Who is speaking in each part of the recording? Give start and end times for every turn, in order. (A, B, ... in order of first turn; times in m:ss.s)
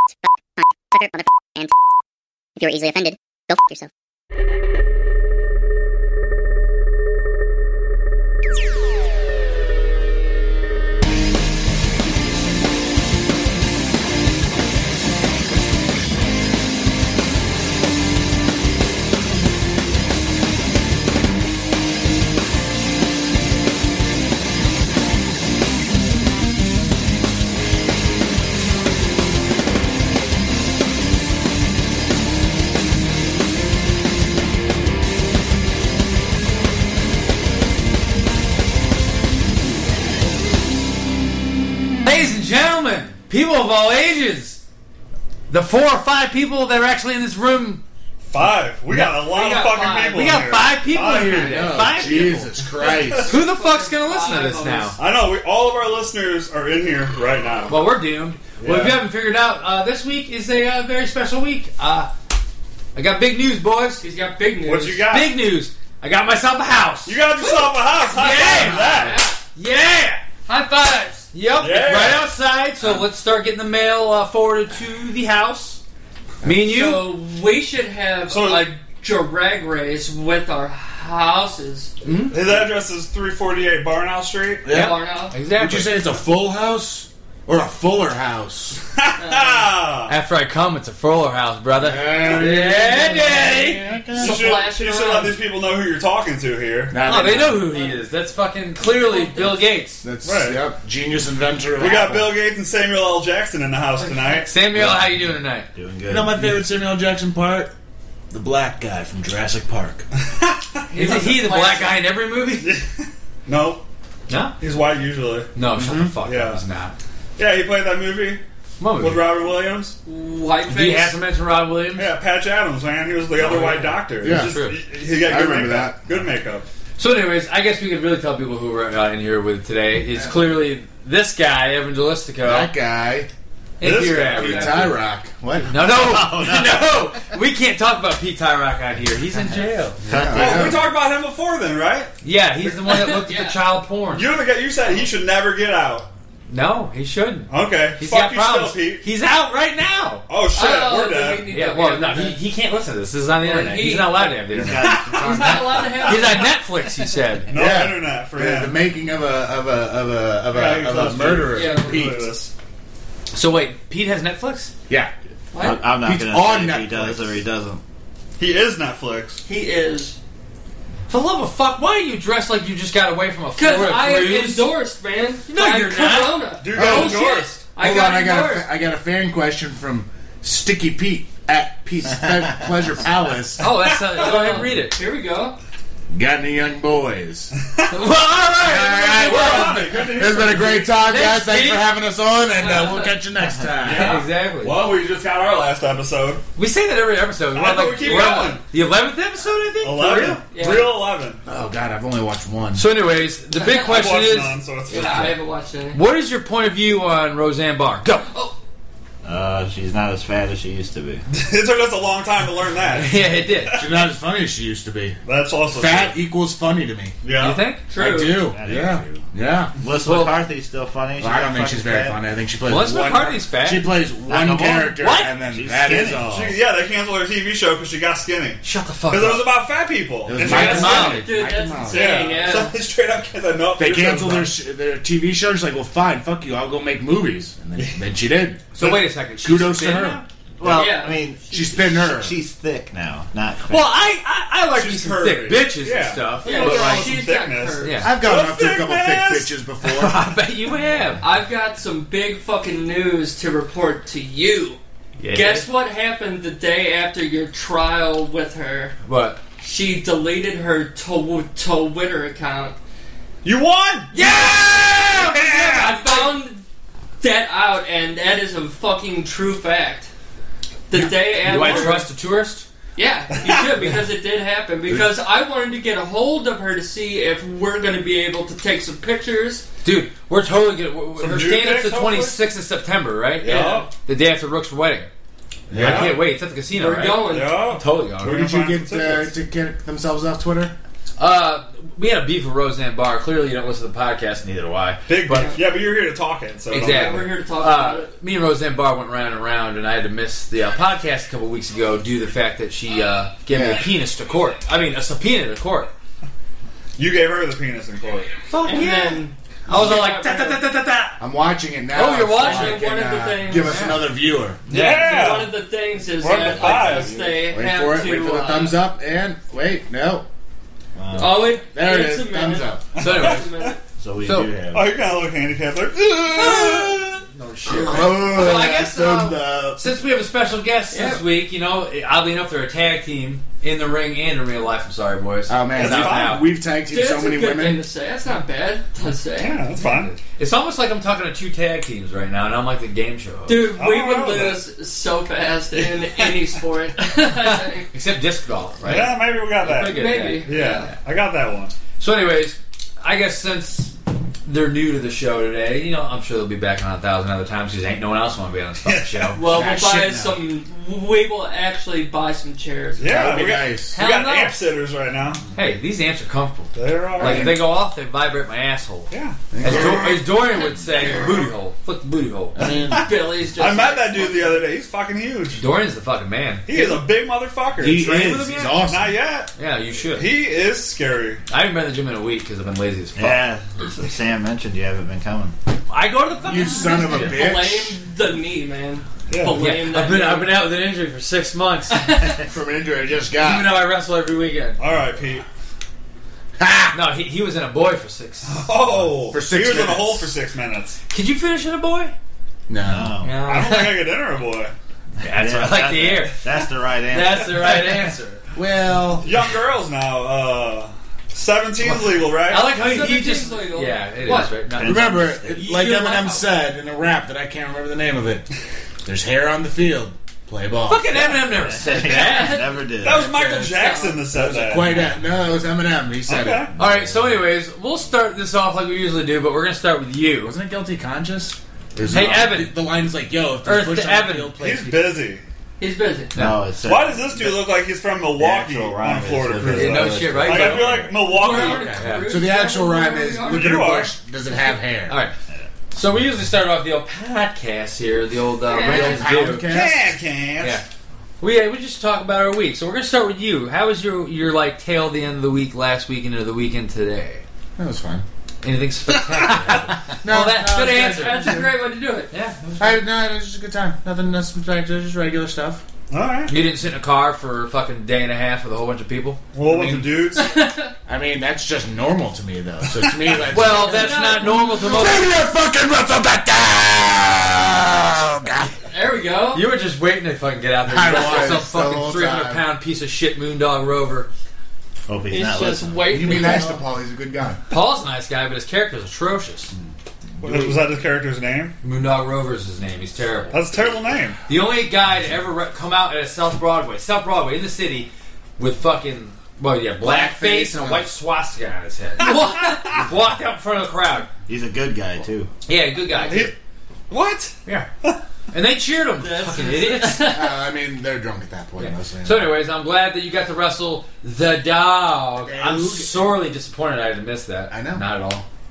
0:00.6-0:01.7 A
0:02.6-0:03.9 A
0:42.0-0:44.6 B
0:45.5-0:47.8 B
0:48.3-0:51.8 C
0:48.9-0:49.3 B
0:49.3-0:50.3 D
0:50.0-0:52.5 B
0:51.0-0:53.4 E
0:52.8-0:53.2 C
0:53.2-0:55.0 D
0:53.3-0:55.0 B
0:55.0-0:57.8 C
0:57.7-1:02.1 B
0:58.6-0:59.0 C
1:03.0-1:04.0 B
1:04.0-1:05.1 D
1:04.6-1:05.4 C
1:05.1-1:07.5 B
1:07.1-1:09.2 C
1:08.1-1:10.2 B
1:08.5-1:09.4 D
1:10.5-1:11.3 D
1:11.3-1:15.8 B
1:11.6-1:12.3 C
1:16.4-1:17.2 B
1:16.6-1:22.0 D
1:18.3-1:18.7 C
1:22.0-1:22.4 B
1:22.3-1:24.7 C
1:24.6-1:25.0 E
1:24.7-1:25.3 D
1:24.7-1:25.9 B
1:25.6-1:28.8 E
1:29.0-1:30.2 C
1:29.2-1:29.7 D
1:30.1-1:33.8 B
1:31.8-1:34.4 E
1:32.2-1:32.5 C
1:32.5-1:35.4 D
1:34.2-1:37.0 C
1:36.9-1:37.8 E
1:37.0-1:40.0 B
1:37.4-1:38.0 D
1:38.8-1:39.7 D
1:40.0-1:42.4 E
1:40.2-1:40.6 C
1:41.8-1:44.5 C
1:44.0-1:44.4 D
1:44.4-1:45.7 B
1:44.8-1:46.4 F
1:46.1-1:47.7 E
1:48.3-1:50.0 E
1:50.2-1:50.8 C
1:50.9-1:52.0 D
1:50.9-1:52.7 B
1:52.6-1:53.8 C
1:54.3-1:54.6 B
1:54.6-1:55.5 C
1:55.6-1:57.0 B
1:55.7-1:56.2 E
1:56.2-1:56.6 C
1:57.4-1:58.4 C
1:58.8-1:59.2 B
1:59.0-2:00.0 C
2:00.0-2:01.2 D
2:00.7-2:02.1 B
2:02.0-2:06.7 C
2:03.4-2:04.8 B
2:03.6-2:04.6 E
2:05.1-2:06.0 E
2:07.0-2:12.7 B
2:10.1-2:10.5 E
2:12.4-2:13.3 E
2:13.8-2:15.0 B
2:13.8-2:14.9 C
2:14.4-2:16.0 E
2:15.7-2:20.0 B
2:15.9-2:17.2 F
2:20.1-2:20.8 F
2:20.1-2:20.9 E
2:20.3-2:22.9 C
2:22.2-2:24.3 B
2:22.9-2:23.6 D
2:24.1-2:26.1 C
2:24.8-2:25.1 D
2:26.5-2:30.2 B
2:27.5-2:29.1 C
2:30.3-2:31.5 C
2:30.6-2:32.4 D
2:31.5-2:35.0 B
2:33.4-2:36.6 D
2:34.5-2:36.0 F
2:34.6-2:34.9 C
2:36.0-2:37.5 B
2:37.5-2:38.8 C
2:37.5-2:42.3 E
2:40.5-2:42.5 C
2:41.5-2:42.0 D
2:43.3-2:44.7 B
2:45.5-2:45.9 D
2:45.6-2:47.8 F
2:46.0-2:47.4 E
2:48.4-2:49.4 C
2:49.5-2:50.2 D
2:51.1-2:54.8 B
2:53.6-2:58.7 D
2:55.5-2:56.5 B
2:56.6-2:57.7 C
2:56.8-2:57.2 E
2:57.8-3:03.6 E
3:03.6-3:05.0 B
3:03.6-3:04.0 C
3:04.2-3:05.6 D
3:06.1-3:07.5 E
3:07.9-3:10.3 B
3:08.6-3:14.2 E
3:09.0-3:11.0 C
3:11.0-3:11.9 B
3:12.6-3:13.2 D
3:13.8-3:16.4 C
3:13.8-3:14.8 B
3:16.6-3:20.4 B
3:17.5-3:18.6 C
3:19.8-3:21.4 C
3:20.5-3:20.9 D
3:21.5-3:22.9 E
3:22.7-3:25.3 B
3:23.6-3:24.1 D
3:23.7-3:25.4 C
3:24.9-3:26.0 D
3:25.9-3:28.2 B
3:28.2-3:28.6 D
3:29.2-3:31.2 F
3:31.3-3:33.9 C
3:32.9-3:33.8 B
3:33.8-3:35.2 E
3:35.2-3:36.2 C
3:35.7-3:37.2 E
3:37.2-3:37.6 C
3:37.4-3:37.9 B
3:37.9-3:38.5 D
3:38.0-3:39.7 E
3:38.3-3:39.2 F
3:39.8-3:42.2 F
3:40.0-3:40.4 B
3:41.2-3:46.5 E
3:42.7-3:45.3 B
3:44.3-3:44.8 F
3:45.4-3:46.5 F
3:46.1-3:51.2 C
3:48.6-3:49.5 B
3:50.2-3:52.6 E
3:50.4-3:51.3 B
3:50.4-3:52.8 D
3:51.9-3:54.6 C
3:53.8-4:00.8 E
3:57.8-3:58.0 C
3:58.8-4:00.3 B
4:00.6-4:04.0 F
4:00.6-4:01.8 D
4:01.5-4:02.4 E
4:03.7-4:07.2 B
4:04.7-4:09.5 C
4:06.4-4:08.0 D
4:07.8-4:08.2 B
4:08.0-4:10.2 E
4:09.8-4:11.2 B
4:11.2-4:14.8 D
4:15.2-4:15.7 B
4:15.3-4:19.0 D
4:19.0-4:19.4 B
4:19.6-4:22.8 D
4:23.4-4:26.0 C
4:24.1-4:26.4 B
4:25.7-4:26.6 D
4:27.2-4:30.1 D
4:30.9-4:32.1 D
4:31.3-4:32.7 B
4:31.5-4:32.0 C
4:33.0-4:39.7 D
4:33.3-4:33.9 C
4:39.8-4:45.1 B
4:41.2-4:42.4 C
4:43.4-4:43.9 C
4:43.4-4:43.9 D
4:45.7-4:46.2 E
4:45.7-4:46.2 C
4:45.7-4:48.5 B
4:46.7-4:47.8 D
4:47.3-4:49.3 C
4:48.2-4:50.7 E
4:51.2-4:55.6 B
4:55.1-4:57.3 C
4:55.3-4:55.6 D
4:56.7-4:58.1 D
4:56.7-5:05.9 B
5:03.5-5:03.9 E
5:07.0-5:08.4 C
5:08.4-5:11.2 B
5:08.6-5:10.6 D
5:11.2-5:14.6 E
5:11.9-5:12.8 B
5:12.1-5:13.9 D
5:13.5-5:14.1 B
5:14.7-5:15.4 B
5:14.7-5:15.6 C
5:14.8-5:18.8 D
5:16.2-5:17.2 C
5:16.3-5:20.3 E
5:21.0-5:21.6 F
5:21.1-5:23.8 D
5:21.7-5:22.9 E
5:23.0-5:23.7 C
5:23.0-5:23.5 B
5:24.0-5:24.9 F
5:24.2-5:24.5 B
5:24.7-5:27.2 C
5:26.4-5:36.5 B
5:27.7-5:29.9 E
5:30.9-5:31.2 D
5:35.5-5:37.8 E
5:35.8-5:36.4 C
5:36.9-5:39.7 D
5:39.4-5:40.1 C
5:39.8-5:43.7 B
5:43.5-5:47.9 D
5:43.8-5:44.6 C
5:45.7-5:46.5 C
5:47.4-5:50.6 B
5:48.8-5:51.7 C
5:49.8-5:50.9 D
5:52.0-6:00.3 B
5:58.8-6:00.2 C
5:59.4-6:03.6 D
6:03.0-6:05.4 C
6:03.0-6:04.0 E
6:03.9-6:04.6 B
6:05.5-6:09.1 B
6:06.8-6:07.6 C
6:07.2-6:07.7 E
6:09.1-6:10.4 C
6:09.5-6:10.2 E
6:09.6-6:12.6 B
6:11.0-6:11.5 C
6:12.6-6:13.1 E
6:12.9-6:14.6 D
6:12.9-6:15.6 C
6:15.5-6:16.7 B
6:16.7-6:18.1 C
6:16.7-6:17.0 D
6:17.8-6:19.2 E
6:17.8-6:18.8 B
6:18.8-6:19.5 C
6:19.6-6:20.3 B
6:20.1-6:21.4 C
6:21.5-6:23.5 B
6:23.2-6:25.5 F
6:25.9-6:27.4 B
6:26.4-6:28.0 E
6:26.9-6:30.6 D
6:29.3-6:29.6 C
6:29.6-6:32.1 B
6:31.9-6:32.4 D
6:32.4-6:33.7 E
6:33.4-6:34.8 B
6:34.8-6:35.4 C
6:36.6-6:37.0 E
6:36.9-6:38.6 B
6:38.4-6:41.0 C
6:39.3-6:40.3 E
6:41.1-6:42.1 B
6:42.7-6:43.2 E
6:42.8-6:43.4 F
6:43.2-6:44.0 B
6:43.4-6:44.7 C
6:45.2-6:46.5 B
6:45.2-6:47.7 F
6:47.1-6:48.4 B
6:48.6-6:49.3 E
6:49.2-6:52.7 C
6:51.8-6:56.5 B
6:52.5-6:54.5 D
6:54.4-6:55.6 F
6:54.8-6:58.5 E
6:59.0-7:01.1 E
7:00.9-7:02.8 B
7:01.2-7:03.3 F
7:02.1-7:02.7 D
7:03.0-7:05.0 C
7:03.3-7:04.2 D
7:04.3-7:07.2 E
7:06.3-7:06.7 C
7:06.8-7:10.5 B
7:10.4-7:15.0 E
7:12.1-7:12.7 B
7:13.6-7:14.6 B
7:14.6-7:15.4 C
7:15.8-7:16.4 D
7:16.4-7:16.6 B
7:16.4-7:17.6 F
7:16.8-7:21.9 C
7:18.4-7:21.1 F
7:19.7-7:21.0 B
7:21.2-7:23.9 D
7:21.4-7:25.2 E
7:21.9-7:22.4 B
7:23.5-7:24.1 C
7:25.1-7:25.3 B
7:25.9-7:29.7 B
7:28.7-7:29.3 D
7:28.8-7:30.1 E
7:29.6-7:30.8 C
7:31.4-7:37.4 B
7:37.8-7:38.2 E
7:38.6-7:41.6 B
7:39.7-7:41.7 E
7:40.8-7:42.3 D
7:42.3-7:43.0 B
7:42.8-7:45.8 E
7:46.1-7:46.5 C
7:46.5-7:50.1 B
7:49.5-7:50.5 C
7:50.3-7:50.9 D
7:51.1-7:58.7 E
7:53.5-7:55.3 B
7:53.7-7:54.8 D
7:58.8-7:59.7 D
7:59.5-8:04.3 B
8:00.8-8:02.6 E
8:01.1-8:01.6 D
8:05.1-8:06.6 F
8:05.3-8:06.8 D
8:06.1-8:07.6 E
8:07.7-8:09.7 B
8:10.4-8:11.8 C
8:10.4-8:10.8 E
8:11.8-8:13.6 B
8:13.5-8:14.4 C
8:14.5-8:24.3 B
8:20.0-8:21.1 E
8:22.2-8:22.8 C
8:22.3-8:22.6 D
8:24.5-8:25.5 F
8:25.7-8:26.5 B
8:26.1-8:26.5 D
8:26.3-8:26.5 C
8:27.1-8:28.2 C
8:28.5-8:30.5 B
8:29.2-8:30.5 D
8:30.2-8:32.6 E
8:31.8-8:38.4 B
8:35.4-8:36.4 E
8:37.7-8:38.0 E